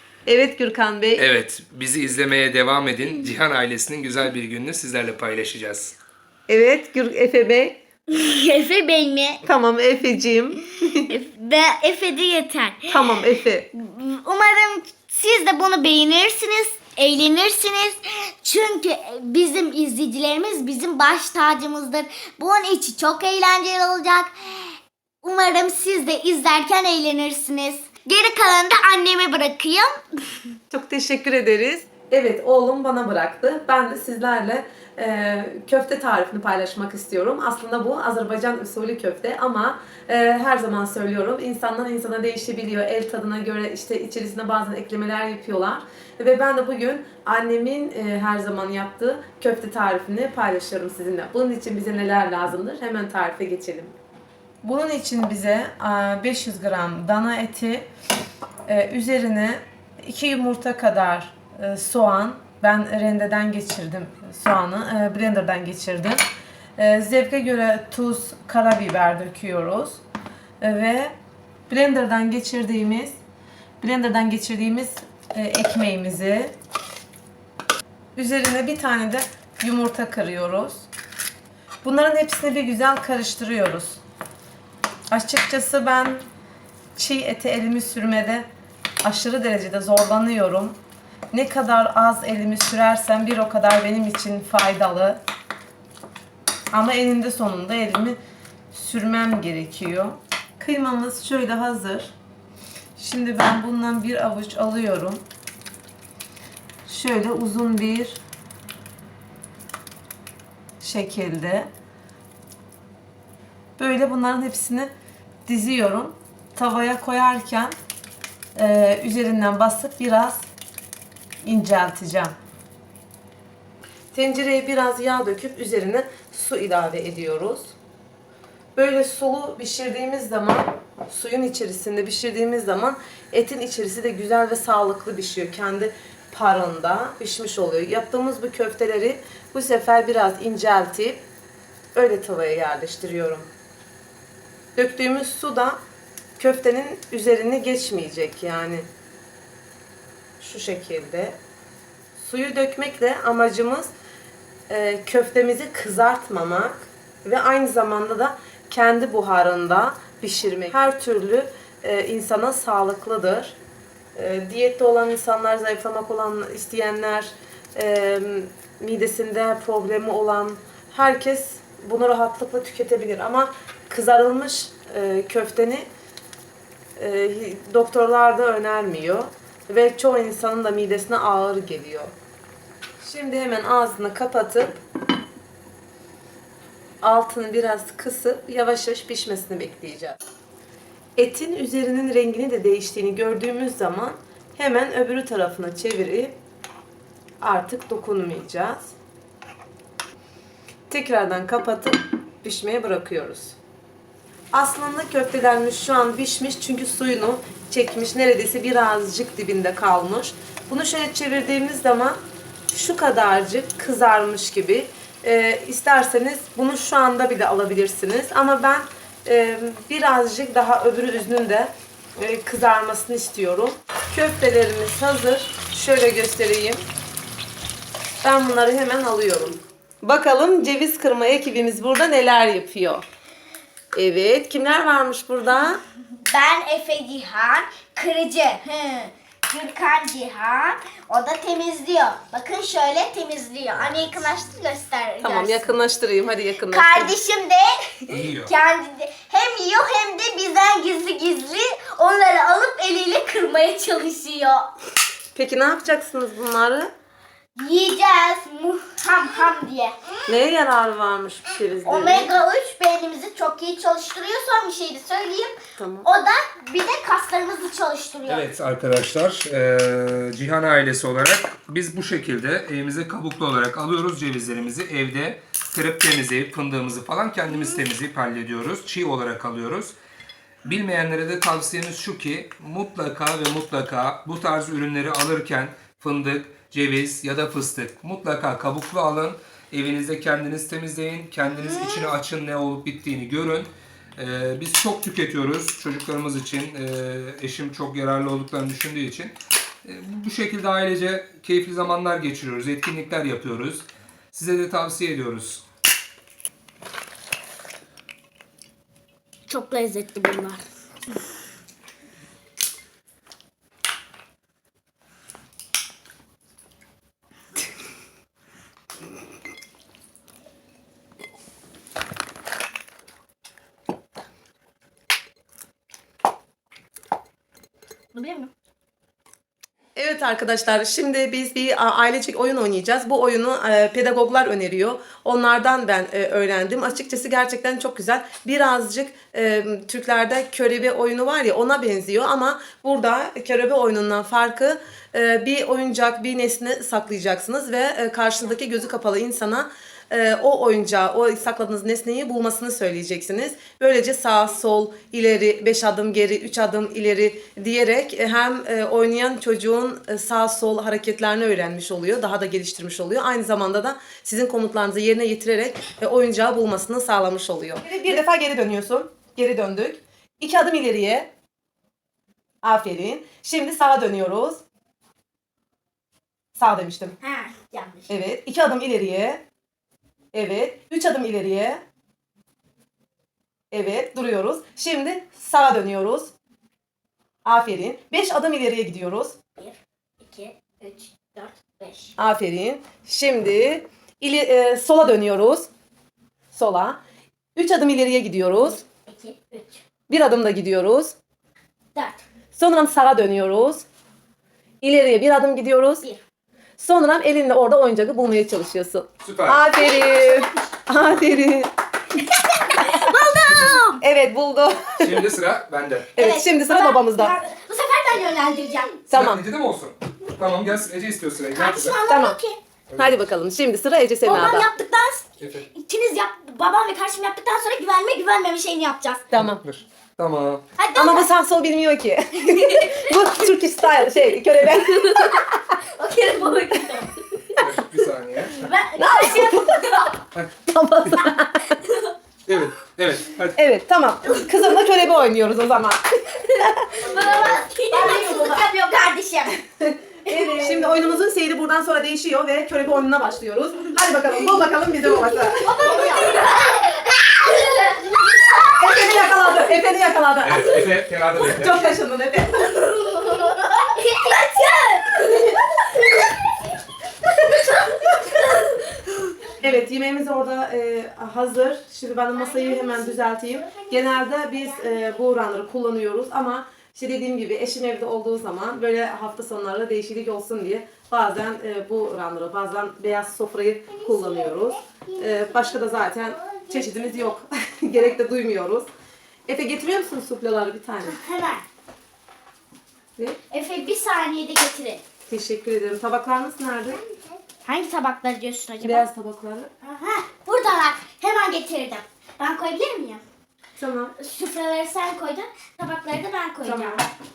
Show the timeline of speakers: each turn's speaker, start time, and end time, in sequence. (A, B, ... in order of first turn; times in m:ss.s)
0:00.2-0:01.2 A
0:01.2-0:05.9 B
0:06.5-0:07.8 A
0:08.1-0:09.4 C
0:09.4-0:11.1 A
0:11.1-0:13.2 C
0:12.9-0:13.7 A
0:13.7-0:24.3 C
0:25.2-0:30.0 C
0:30.7-0:53.9 A
0:54.6-0:57.9 A
0:58.7-1:06.2 A
1:06.8-1:10.0 A
1:10.6-1:11.1 A
1:11.7-1:13.2 A
1:13.8-1:16.5 A
1:18.2-1:20.9 A
1:21.8-1:24.0 A
1:25.1-1:26.2 A
1:27.0-1:28.4 A
1:29.0-1:30.8 A
1:31.3-1:35.2 A
1:36.7-1:38.2 A
1:38.7-1:42.1 A
1:43.0-1:45.2 A
1:46.8-1:48.2 A
1:50.8-1:51.7 A
1:53.8-1:54.9 A
1:55.5-1:57.7 A
1:58.6-2:00.4 A
2:01.4-2:02.3 A
2:04.1-2:07.8 A
2:08.8-2:21.2 A
2:21.9-2:23.5 A
2:24.8-2:25.8 A
2:26.4-2:28.8 A
2:30.4-2:31.4 A
2:32.2-2:33.9 A
2:34.7-2:43.5 A
2:44.2-2:55.9 A
2:57.0-3:02.1 A
3:03.0-3:04.7 A
3:07.0-3:10.2 A
3:11.2-3:16.4 A
3:17.4-3:18.9 A
3:20.9-3:23.6 A
3:24.5-3:32.2 A
3:32.7-3:46.8 A
3:48.2-3:53.0 A
3:53.9-3:55.8 A
3:56.2-4:05.7 C
4:05.2-4:07.1 A
4:06.7-4:14.7 C
4:08.1-4:08.5 B
4:15.3-4:16.9 A
4:17.6-4:19.9 C
4:20.3-4:22.3 A
4:21.8-4:28.5 C
4:25.8-4:26.1 A
4:28.3-4:39.9 B
4:40.6-5:05.6 B
5:09.5-5:10.6 C
5:28.1-5:28.5 C
5:29.9-6:11.3 A
6:12.6-6:14.6 A
6:16.5-6:17.2 A
6:17.2-6:18.1 C
6:18.1-6:19.4 A
6:20.3-6:21.8 A
6:23.7-6:26.3 A
6:27.4-6:29.4 A
6:29.6-6:32.1 C
6:32.2-6:35.7 A
6:36.5-6:37.0 A
6:37.6-6:38.8 A
6:39.1-6:39.8 C
6:40.1-6:41.1 A
6:41.9-6:42.2 C
6:42.5-6:43.8 A
6:44.8-6:46.0 A
6:46.8-6:51.7 A
6:49.2-6:49.6 B
6:49.7-6:50.7 C
6:52.2-6:54.0 C
6:53.5-6:53.8 B
6:54.0-6:55.2 A
6:55.0-6:56.1 B
6:56.2-6:57.4 A
6:56.2-6:59.0 C
6:59.1-6:59.4 A
6:59.1-7:02.0 B
7:01.5-7:02.6 C
7:02.0-7:02.4 A
7:03.0-7:04.7 A
7:04.2-7:09.2 C
7:05.4-7:05.7 B
7:09.3-7:09.6 A
7:09.3-7:10.6 B
7:10.8-7:11.3 C
7:10.9-7:15.5 A
7:12.4-7:13.2 C
7:14.7-7:17.6 C
7:17.6-7:18.7 B
7:18.5-7:20.2 C
7:19.0-7:19.8 A
7:20.6-7:21.8 A
7:21.8-7:22.1 C
7:22.5-7:23.6 B
7:23.5-7:26.0 A
7:26.5-7:29.6 C
7:26.6-7:27.1 A
7:27.9-7:28.6 A
7:30.2-7:30.9 C
7:30.2-7:35.7 A
7:35.3-7:39.2 C
7:38.8-7:40.8 A
7:40.4-7:41.8 B
7:41.4-7:42.7 A
7:42.8-7:45.6 C
7:47.4-7:48.8 C
7:49.6-8:08.9 A
7:52.3-7:55.2 C
8:04.0-8:07.3 C
8:09.5-8:11.2 A
8:11.0-8:11.6 C
8:13.5-8:15.0 C
8:15.3-8:17.0 A
8:17.0-8:19.0 C
8:18.8-8:19.7 A
8:19.8-8:23.2 C
8:23.8-8:24.1 A
8:24.2-8:27.0 C
8:26.6-8:27.0 A